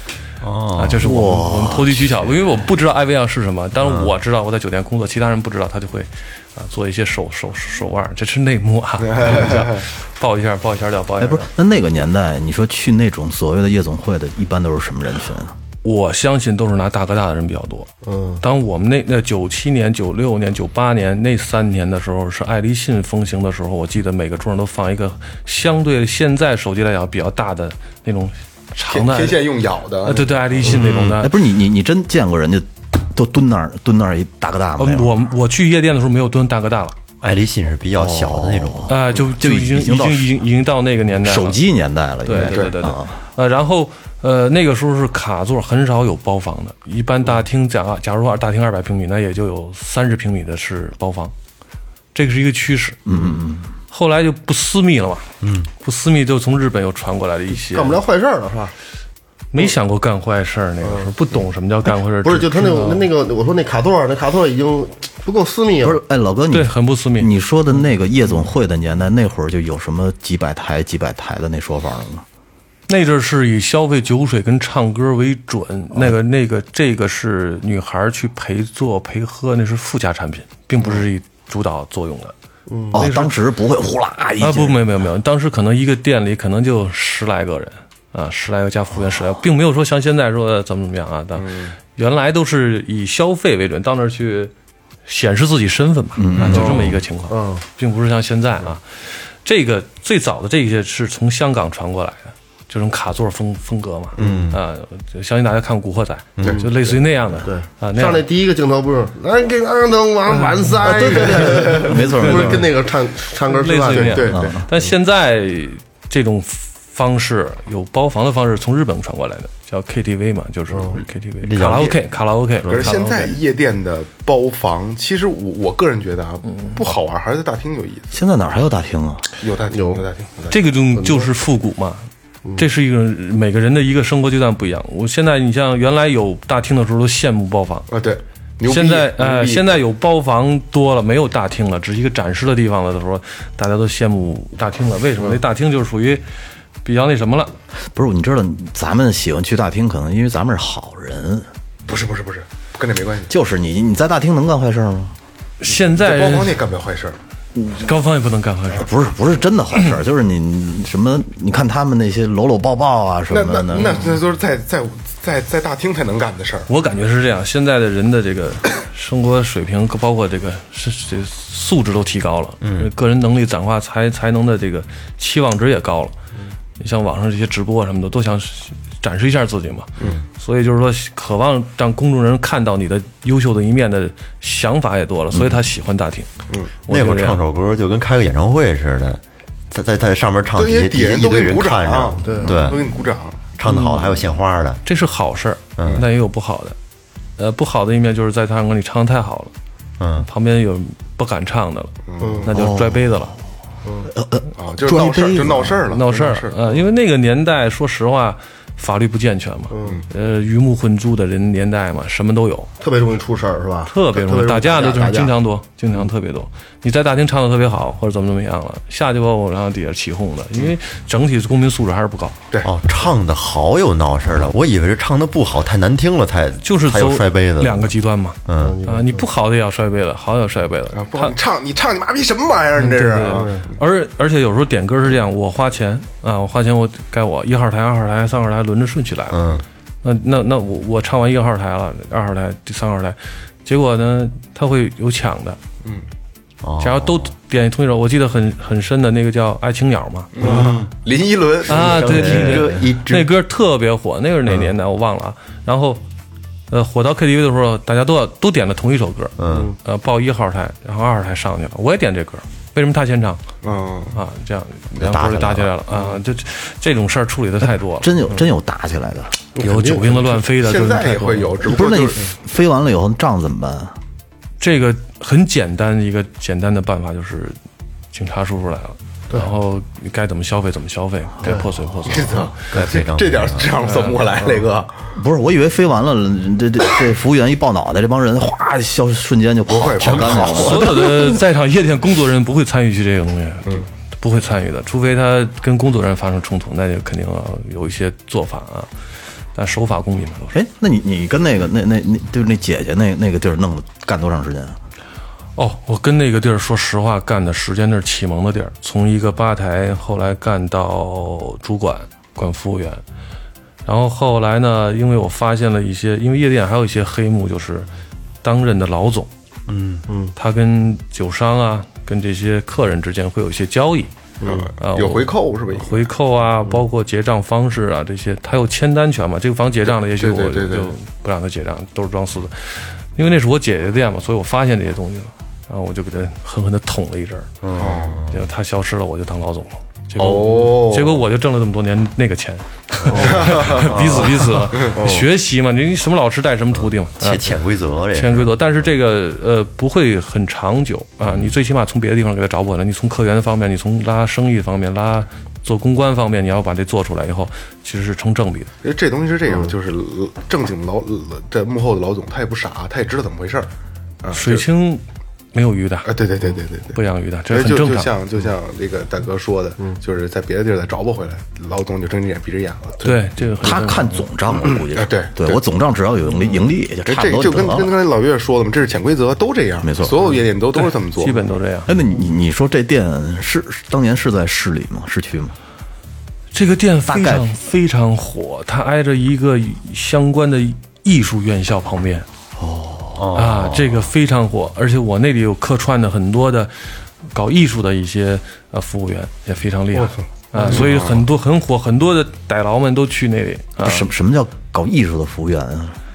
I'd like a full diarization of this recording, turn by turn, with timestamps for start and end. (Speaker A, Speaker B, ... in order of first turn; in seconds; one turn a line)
Speaker A: 0.4-1.0
Speaker B: 0.7-11.5
Speaker C: 1.0-2.4
Speaker A: 3.8-4.1
Speaker D: 9.0-9.8
Speaker C: 11.2-15.5
Speaker B: 15.8-17.9
Speaker E: 18.1-18.4
Speaker B: 18.4-29.4
Speaker D: 28.9-31.1
Speaker B: 30.0-31.3
Speaker C: 31.1-35.2
Speaker B: 34.8-37.0
Speaker A: 37.2-38.9
Speaker C: 37.9-40.4
Speaker B: 38.9-41.6
Speaker C: 41.2-43.2
Speaker B: 42.2-51.3
Speaker D: 42.5-42.8
Speaker B: 52.1-53.0
Speaker C: 53.0-53.7
Speaker B: 53.9-55.3
Speaker A: 55.4-55.7
Speaker B: 55.8-58.0
Speaker E: 57.6-58.7
Speaker B: 59.5-63.1
Speaker E: 60.8-61.1
Speaker E: 62.2-66.0
Speaker C: 65.8-72.2
Speaker B: 66.5-67.3
Speaker B: 72.9-82.3
Speaker E: 82.7-83.0
Speaker C: 82.9-84.8
Speaker B: 82.9-83.3
Speaker B: 84.4-94.5
Speaker D: 91.3-91.7
Speaker B: 95.0-108.2
Speaker C: 96.2-97.0
Speaker E: 96.5-97.6
Speaker A: 104.2-104.6
Speaker E: 104.2-104.4
Speaker E: 107.4-114.5
Speaker B: 110.3-110.8
Speaker C: 110.8-112.7
Speaker D: 111.4-111.8
Speaker B: 112.2-112.6
Speaker B: 113.5-123.4
Speaker D: 113.9-114.5
Speaker C: 114.3-114.7
Speaker E: 120.7-121.0
Speaker A: 121.4-122.0
Speaker A: 122.6-123.0
Speaker D: 122.7-128.1
Speaker B: 126.5-126.8
Speaker C: 128.1-129.2
Speaker D: 129.4-130.6
Speaker E: 129.7-130.0
Speaker B: 130.5-137.9
Speaker E: 130.9-131.3
Speaker D: 137.9-139.8
Speaker B: 138.6-146.2
Speaker B: 146.8-147.5
Speaker C: 147.9-151.5
Speaker D: 151.9-153.3
Speaker C: 153.3-155.1
Speaker B: 155.6-156.6
Speaker D: 155.9-157.2
Speaker B: 157.7-158.9
Speaker C: 158.7-164.2
Speaker D: 163.3-166.7
Speaker B: 166.7-176.1
Speaker A: 172.6-172.9
Speaker B: 176.8-186.3
Speaker B: 186.9-187.4
Speaker A: 186.9-192.8
Speaker D: 190.6-193.4
Speaker E: 192.2-192.7
Speaker A: 193.6-194.8
Speaker B: 194.8-196.8
Speaker A: 195.8-196.1
Speaker B: 197.4-199.5
Speaker A: 200.0-200.3
Speaker B: 200.2-201.9
Speaker D: 202.1-202.5
Speaker E: 202.2-202.5
Speaker B: 202.4-203.3
Speaker C: 202.5-203.3
Speaker E: 203.8-204.1
Speaker C: 204.1-205.8
Speaker D: 204.6-206.8
Speaker B: 205.9-212.7
Speaker E: 209.7-210.0
Speaker E: 212.8-215.3
Speaker B: 213.9-222.4
Speaker A: 222.6-227.9
Speaker B: 226.6-231.3
Speaker A: 228.4-228.8
Speaker E: 228.6-229.3
Speaker D: 230.9-233.7
Speaker B: 232.8-245.6
Speaker E: 233.2-233.7
Speaker A: 239.3-239.6
Speaker A: 246.6-247.3
Speaker B: 246.8-250.3
Speaker D: 250.3-252.5
Speaker A: 250.4-250.9
Speaker A: 251.7-253.3
Speaker B: 251.7-256.0
Speaker B: 256.7-263.4
Speaker A: 259.4-259.7
Speaker E: 259.5-259.7
Speaker D: 263.6-264.1
Speaker B: 264.1-268.1
Speaker A: 264.9-265.7
Speaker C: 268.0-269.3
Speaker E: 269.6-270.2
Speaker B: 269.6-271.5
Speaker D: 270.6-272.3
Speaker C: 271.6-273.9
Speaker B: 274.6-277.6
Speaker B: 278.1-282.5
Speaker D: 282.1-284.9
Speaker A: 282.7-283.7
Speaker B: 283.8-284.2
Speaker C: 285.1-291.3
Speaker D: 289.7-290.9
Speaker A: 290.1-290.4
Speaker B: 290.5-298.9
Speaker B: 299.5-300.6
Speaker C: 300.5-304.8
Speaker B: 305.6-313.0
Speaker B: 313.8-317.9
Speaker B: 318.4-319.3
Speaker A: 319.7-320.0
Speaker E: 320.1-320.3
Speaker B: 320.4-324.1
Speaker E: 324.4-324.7
Speaker D: 324.4-326.1
Speaker B: 324.8-337.5
Speaker D: 330.2-330.9
Speaker A: 337.6-338.4
Speaker D: 337.8-338.2
Speaker B: 338.3-347.6
Speaker D: 340.2-341.2
Speaker E: 343.1-343.5
Speaker D: 343.2-343.9
Speaker A: 343.7-344.8
Speaker E: 344.9-345.2
Speaker A: 346.7-348.6
Speaker B: 348.1-358.7
Speaker D: 358.8-363.7
Speaker D: 364.2-364.6
Speaker B: 364.3-365.0
Speaker B: 365.5-366.1
Speaker D: 366.1-366.9
Speaker B: 366.9-368.1
Speaker D: 367.5-373.1
Speaker B: 373.0-374.2
Speaker C: 373.6-377.9
Speaker D: 374.6-375.6
Speaker D: 377.1-381.5
Speaker C: 379.8-380.2
Speaker B: 380.7-381.9
Speaker C: 381.9-385.5
Speaker B: 386.5-392.3
Speaker C: 387.1-387.5
Speaker C: 392.6-393.4
Speaker A: 393.2-394.0
Speaker B: 393.3-404.1
Speaker E: 399.9-400.2
Speaker D: 400.7-401.2
Speaker C: 403.8-405.9